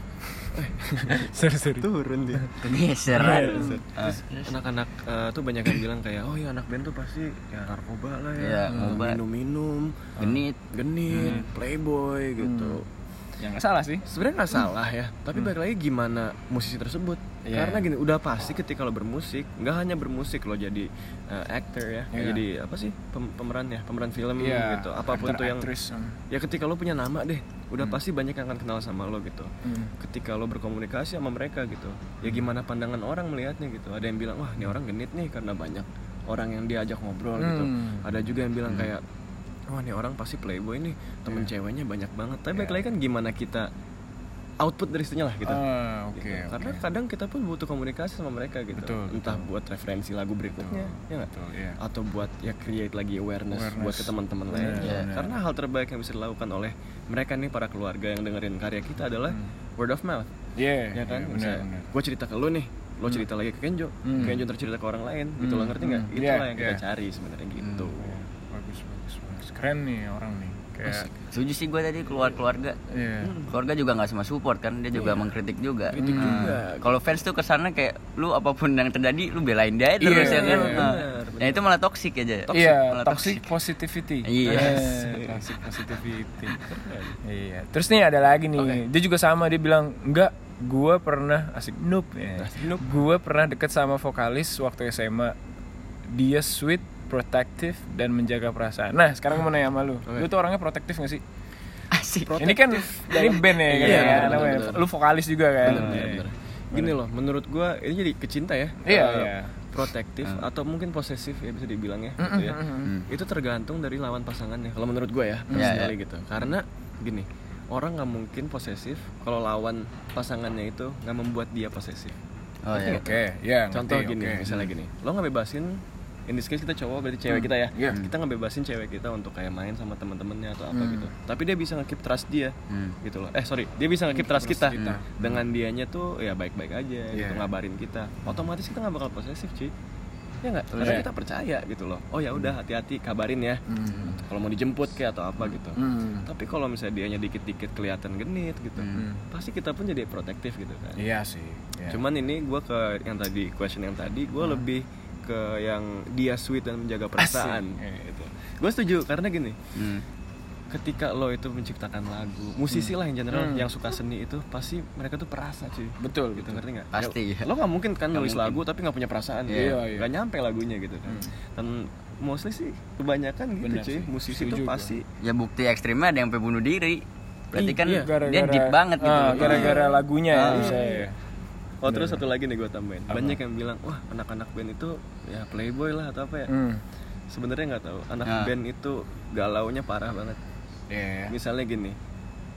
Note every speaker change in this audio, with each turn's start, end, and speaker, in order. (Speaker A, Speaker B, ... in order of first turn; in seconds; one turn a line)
Speaker A: 0.2-1.9
Speaker B: 0.5-10.1
Speaker C: 2.6-4.5
Speaker A: 3.1-3.8
Speaker C: 8.4-9.2
Speaker A: 8.7-9.0
Speaker A: 10.2-10.4
Speaker C: 10.2-10.6
Speaker B: 10.7-12.8
Speaker A: 11.1-11.5
Speaker C: 11.1-11.5
Speaker A: 12.4-12.8
Speaker A: 13.4-14.0
Speaker B: 14.1-25.7
Speaker A: 17.5-17.9
Speaker A: 22.1-22.4
Speaker A: 24.4-26.2
Speaker B: 26.3-39.0
Speaker A: 29.6-29.9
Speaker A: 37.4-38.1
Speaker B: 39.7-43.7
Speaker A: 42.5-42.8
Speaker B: 44.6-45.6
Speaker A: 45.5-46.8
Speaker B: 46.1-60.3
Speaker A: 48.7-49.5
Speaker A: 50.5-51.8
Speaker A: 53.5-55.4
Speaker C: 54.8-55.1
Speaker A: 60.6-61.9
Speaker B: 60.9-68.1
Speaker A: 64.0-64.4
Speaker A: 65.4-66.8
Speaker C: 67.6-67.9
Speaker A: 68.0-71.1
Speaker B: 70.8-71.1
Speaker C: 71.3-72.8
Speaker A: 72.9-73.3
Speaker B: 73.2-73.5
Speaker C: 73.5-83.5
Speaker B: 74.9-75.3
Speaker B: 75.9-77.0
Speaker A: 76.0-76.5
Speaker A: 80.0-80.9
Speaker B: 80.1-81.6
Speaker B: 82.5-83.3
Speaker A: 82.5-86.6
Speaker C: 84.2-84.9
Speaker B: 84.4-85.8
Speaker B: 86.5-87.2
Speaker A: 87.2-95.3
Speaker B: 92.4-93.0
Speaker A: 96.1-101.2
Speaker C: 101.9-102.4
Speaker B: 102.2-104.8
Speaker A: 102.4-106.2
Speaker C: 103.2-104.7
Speaker B: 105.6-122.2
Speaker C: 105.7-106.1
Speaker A: 108.8-109.5
Speaker A: 112.2-112.9
Speaker A: 115.5-115.8
Speaker C: 115.5-115.9
Speaker C: 122.7-123.1
Speaker B: 122.7-123.2
Speaker A: 122.8-124.5
Speaker B: 123.7-139.7
Speaker A: 127.3-128.0
Speaker A: 130.7-131.1
Speaker C: 132.7-133.0
Speaker A: 134.1-135.4
Speaker A: 137.1-137.5
Speaker B: 140.4-151.0
Speaker C: 140.7-141.0
Speaker A: 140.8-141.1
Speaker A: 143.7-144.2
Speaker A: 145.8-146.2
Speaker C: 148.8-149.1
Speaker A: 148.9-149.2
Speaker A: 151.0-152.0
Speaker B: 151.9-157.8
Speaker A: 157.2-158.3
Speaker B: 158.4-159.6
Speaker C: 159.8-160.0
Speaker B: 160.7-175.0
Speaker A: 162.7-163.7
Speaker A: 166.0-166.6
Speaker C: 166.9-167.5
Speaker C: 168.1-168.6
Speaker A: 169.5-170.1
Speaker C: 169.5-169.8
Speaker A: 173.6-174.9
Speaker C: 175.2-180.8
Speaker B: 177.6-178.1
Speaker A: 177.9-181.2
Speaker B: 179.3-181.1
Speaker B: 181.8-186.5
Speaker A: 181.9-182.2
Speaker A: 183.1-183.4
Speaker A: 186.5-186.8
Speaker B: 187.3-190.4
Speaker C: 188.2-188.5
Speaker A: 190.9-191.3
Speaker B: 191.3-191.9